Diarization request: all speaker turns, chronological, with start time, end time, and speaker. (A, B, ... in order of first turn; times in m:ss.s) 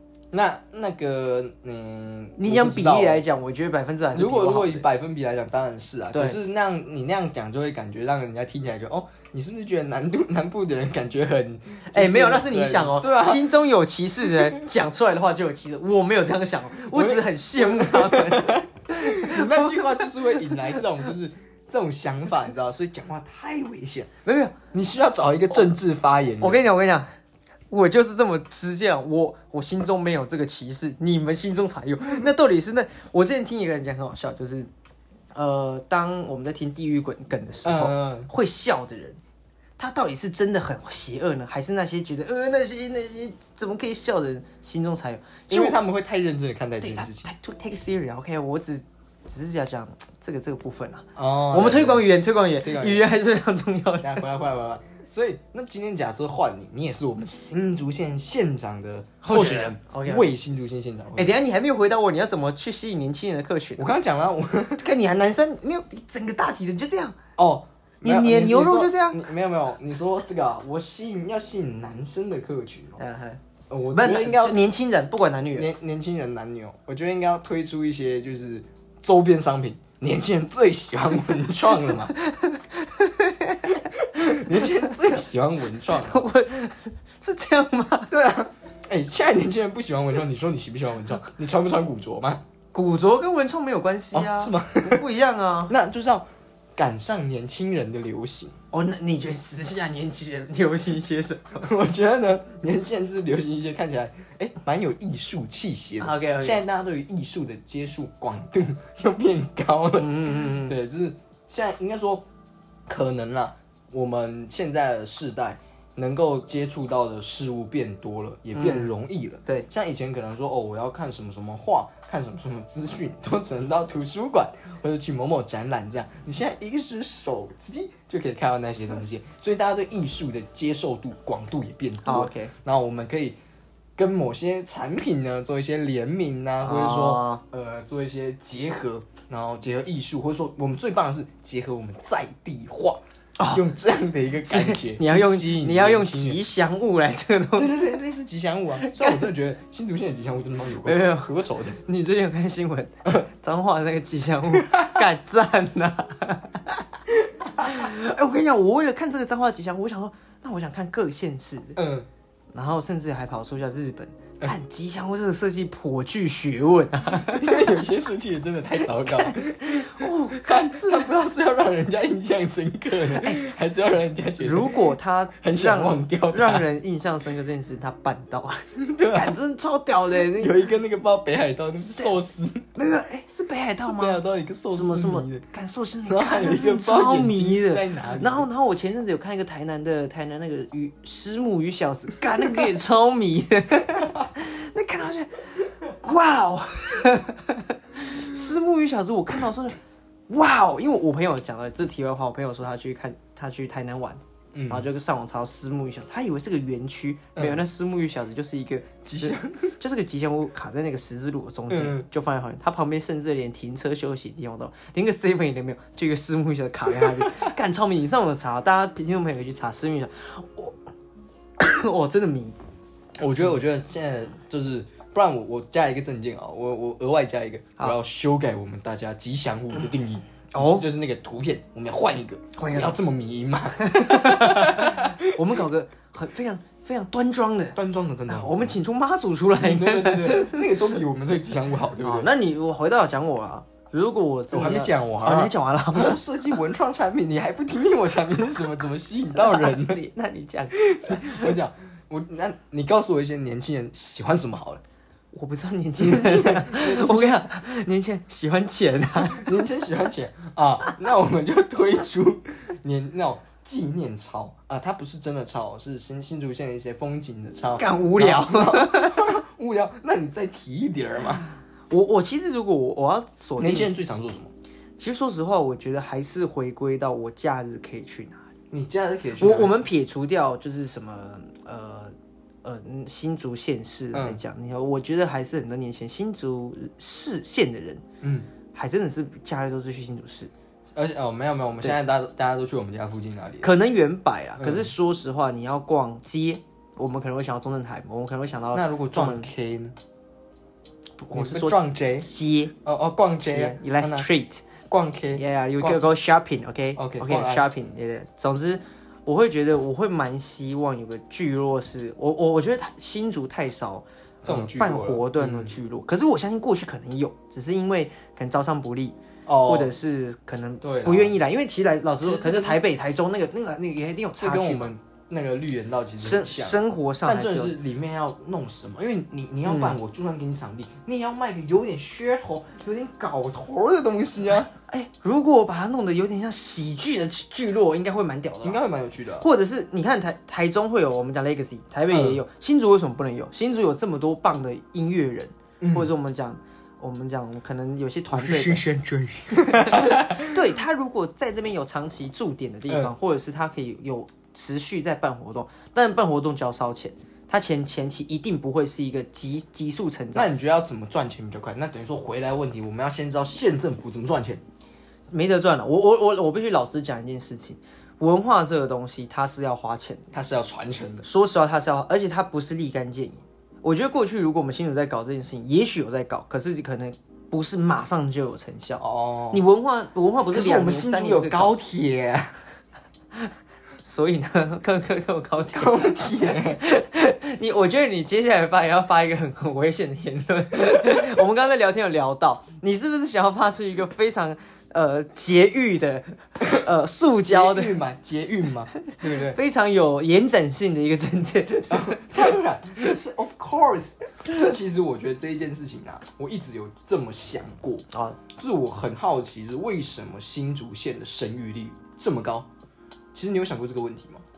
0:00.3-0:03.2 A
0:02.4-0:04.9 B
0:04.1-0:13.5 A
0:06.1-0:06.4 B
0:11.9-0:20.8 B
0:16.9-0:24.1 A
0:24.2-0:24.6 B
0:24.7-0:26.6 A
0:26.4-0:27.1 B
0:27.7-0:34.7 B
0:35.3-0:39.2 B
0:37.6-0:38.3 A
0:39.8-0:45.8 B
0:45.5-0:47.3 A
0:46.8-0:54.2 B
0:51.2-0:53.1 A
0:54.0-1:01.4 A
0:59.2-1:00.3 B
1:01.2-1:03.9 B
1:03.8-1:04.8 A
1:04.8-1:07.2 B
1:07.4-1:13.0 A
1:08.0-1:09.2 B
1:13.0-1:13.4 B
1:13.7-1:14.7 A
1:13.9-1:15.7 B
1:15.6-1:22.1 A
1:22.1-1:24.7 B
1:24.1-1:26.2 A
1:26.0-1:28.1 B
1:28.1-1:32.4 A
1:32.7-1:35.7 B
1:34.1-1:35.0 A
1:35.7-1:36.2 A
1:36.8-1:38.6 A
1:38.7-1:41.7 B
1:41.6-1:52.2 A
1:46.0-1:46.6 B
1:50.0-1:50.8 B
1:52.9-2:13.4 A
1:58.6-1:58.9 B
2:12.0-2:12.5 B
2:14.0-2:23.0 A
2:16.6-2:17.4 B
2:23.4-2:23.6 B
2:23.5-2:26.4 A
2:24.5-2:27.8 B
2:27.6-2:31.8 A
2:28.8-2:29.3 B
2:30.8-2:36.9 B
2:34.5-2:35.0 A
2:37.2-2:37.8 A
2:37.6-2:41.8 B
2:41.8-2:42.1 A
2:42.5-2:47.8 B
2:47.1-2:54.9 A
2:49.0-2:51.0 B
2:54.4-3:00.6 B
2:55.4-2:56.7 A
2:58.8-2:59.4 A
3:00.2-3:02.6 A
3:02.8-3:04.2 B
3:03.8-3:05.4 A
3:04.7-3:15.4 B
3:06.1-3:08.5 A
3:16.0-3:19.8 B
3:20.3-3:40.8 B
3:24.5-3:24.9 A
3:27.4-3:27.6 A
3:29.0-3:29.7 A
3:31.7-3:32.1 A
3:37.0-3:37.5 A
3:41.6-3:42.6 B
3:43.2-3:55.4 A
3:50.5-3:50.8 B
3:52.6-3:53.0 B
3:53.8-4:00.8 B
3:57.8-3:58.8 A
3:59.6-4:02.3 A
4:02.0-4:06.2 B
4:04.5-4:10.0 A
4:09.4-4:11.6 B
4:10.8-4:14.8 A
4:15.3-4:19.6 B
4:16.0-4:17.4 A
4:19.2-4:31.4 A
4:27.8-4:29.3 B
4:31.9-4:33.9 B
4:33.6-4:34.5 A
4:35.0-4:38.4 B
4:38.7-4:39.8 A
4:39.4-4:48.0 B
4:44.1-4:44.4 A
4:48.2-4:48.5 A
4:48.7-4:50.5 B
4:50.9-4:53.7 A
4:53.6-4:59.5 B
4:54.6-4:54.9 A
4:58.7-5:00.0 A
5:01.2-5:02.7 B
5:01.3-5:02.3 A
5:02.8-5:04.3 A
5:03.4-5:04.6 B
5:04.9-5:06.0 A
5:05.4-5:24.9 B
5:07.0-5:07.7 A
5:14.4-5:15.8 A
5:19.5-5:19.9 A
5:20.8-5:21.4 A
5:22.2-5:22.8 A
5:24.4-5:34.7 A
5:26.2-5:27.8 B
5:29.7-5:30.0 B
5:34.8-5:38.8 B
5:38.6-5:39.5 A
5:39.4-5:48.9 B
5:42.1-5:42.4 A
5:45.8-5:46.1 A
5:48.3-5:50.6 A
5:49.6-6:00.5 B
6:00.3-6:04.6 A
6:05.3-6:10.3 B
6:10.3-6:11.3 A
6:11.2-6:21.8 B
6:19.0-6:19.6 A
6:20.4-6:22.6 A
6:23.4-6:38.0 B
6:25.7-6:26.8 A
6:36.6-6:36.9 A
6:37.5-6:39.6 A
6:39.1-6:42.4 B
6:41.9-6:52.7 A
6:48.1-6:48.4 B
6:53.3-6:54.4 A